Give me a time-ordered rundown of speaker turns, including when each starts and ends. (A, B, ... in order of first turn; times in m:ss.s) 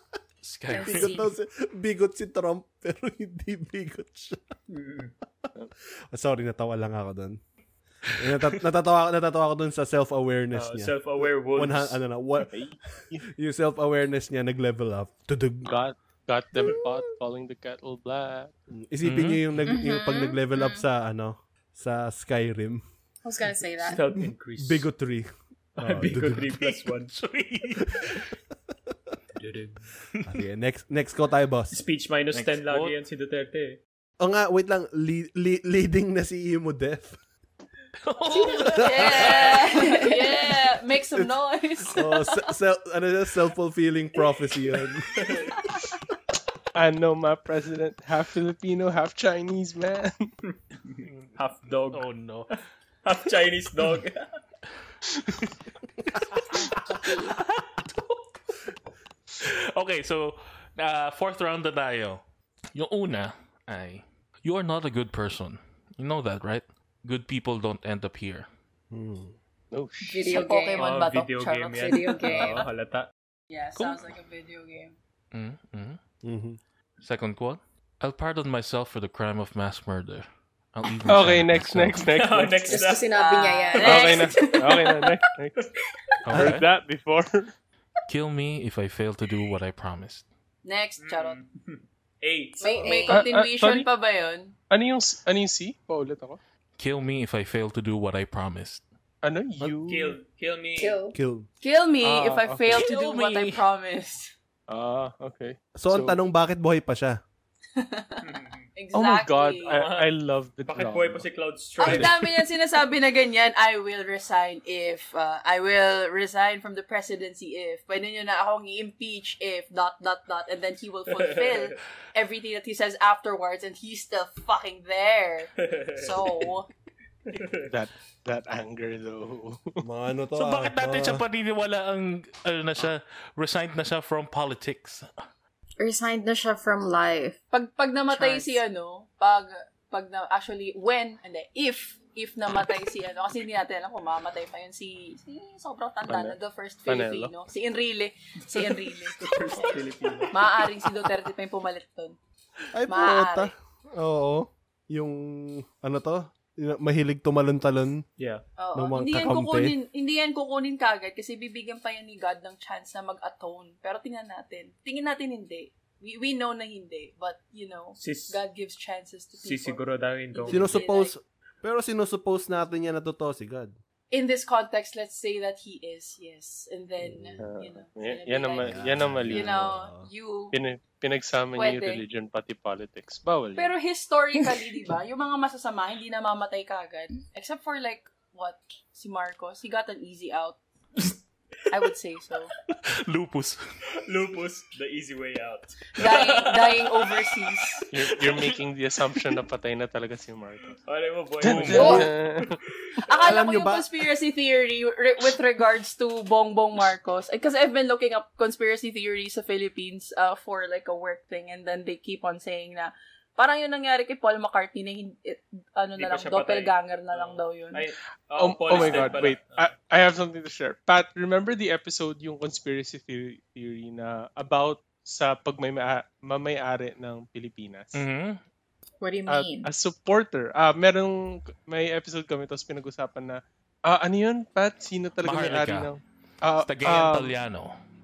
0:00.4-0:01.2 A
0:00.7-0:01.3 B
0:00.8-0:04.4 C
0:04.7-0:05.1 D
0:06.1-0:07.4 C
0:08.2-0:12.6 C
0:10.5-0:12.0 D
0:12.5-0:13.2 E
0:13.3-0:15.7 C
0:15.7-0:18.5 E
0:18.8-0:22.8 C
0:19.0-0:19.6 A
0:19.7-0:20.8 B
0:23.2-0:24.0 B
0:23.8-0:24.9 D
0:24.2-0:26.5 C
0:25.8-0:27.1 D
0:26.6-0:28.2 A
0:29.4-0:29.9 D
0:30.3-0:31.8 C
0:31.7-0:33.8 D
0:32.3-0:33.0 A
0:34.2-0:37.2 C
0:38.0-0:39.7 A
0:38.7-0:42.5 F
0:39.4-0:40.5 B
0:41.9-0:45.2 C
0:45.2-0:45.5 D
0:46.8-0:50.3 E
0:50.5-0:52.5 D
0:51.0-0:51.3 A
0:51.9-0:52.5 A
0:53.0-0:54.3 D
0:56.5-0:57.4 B
0:57.1-0:58.2 A
0:59.4-1:02.2 A
1:02.7-1:08.5 A
1:08.9-1:09.4 C
1:09.7-1:10.4 E
1:10.1-1:10.9 B
1:10.3-1:12.6 F
1:10.8-1:13.1 D
1:11.8-1:12.7 B
1:13.5-1:15.0 F
1:13.8-1:14.1 A
1:15.3-1:16.0 A
1:16.2-1:16.6 C
1:17.0-1:22.0 A
1:21.1-1:22.8 E
1:22.1-1:23.1 D
1:22.7-1:24.3 B
1:23.1-1:25.1 F
1:23.8-1:25.6 E
1:26.3-1:26.7 A
1:26.3-1:27.5 E
1:28.1-1:30.3 A
1:30.6-1:31.4 F
1:31.0-1:32.6 D
1:32.6-1:33.3 B
1:32.6-1:34.6 F
1:33.1-1:33.9 E
1:34.7-1:36.4 E
1:36.8-1:38.8 A
1:39.2-1:40.2 E
1:39.9-1:41.0 D
1:40.8-1:41.2 B
1:41.1-1:41.5 C
1:41.6-1:44.3 F
1:42.0-1:42.9 E
1:42.7-1:43.6 A
1:44.7-1:46.2 E
1:45.8-1:47.2 C
1:47.8-1:49.8 F
1:48.2-1:48.7 D
1:48.9-1:51.3 E
1:49.7-1:50.1 D
1:50.7-1:52.3 D
1:51.8-2:06.7 F
2:01.1-2:01.8 D
2:05.6-2:06.5 D
2:07.3-2:07.7 D
2:07.6-2:09.8 E
2:09.8-2:11.2 C
2:10.4-2:15.1 A
2:15.8-2:17.4 B
2:17.5-2:32.2 F
2:18.1-2:18.6 B
2:26.1-2:27.3 E
2:28.5-2:30.7 D
2:32.7-2:38.0 C
2:32.9-2:33.5 F
2:38.2-2:38.4 D
2:38.6-2:51.1 F
2:38.8-2:39.7 C
2:48.0-2:48.4 D
2:49.4-2:50.7 D
2:50.5-2:53.7 C
2:54.1-3:00.6 F
2:57.0-2:57.4 C
2:57.4-2:59.6 E
2:58.6-3:00.1 C
3:00.5-3:03.7 E
3:01.6-3:02.0 F
3:03.6-3:10.6 F
3:11.7-3:12.5 F
3:12.9-3:13.6 A
3:14.1-3:18.5 D
3:16.0-3:17.9 F
3:17.9-3:20.8 E
3:20.8-3:23.1 D
3:21.4-3:22.6 E
3:21.4-3:22.0 A
3:21.8-3:22.0 F
3:23.1-3:37.8 F
3:23.2-3:23.9 C
3:36.0-3:39.7 D
3:38.4-3:48.0 E
3:38.7-3:39.1 F
3:47.9-3:48.4 A
3:49.0-3:49.7 B
3:49.3-3:57.4 E
3:55.2-3:55.9 A
3:56.6-3:57.7 A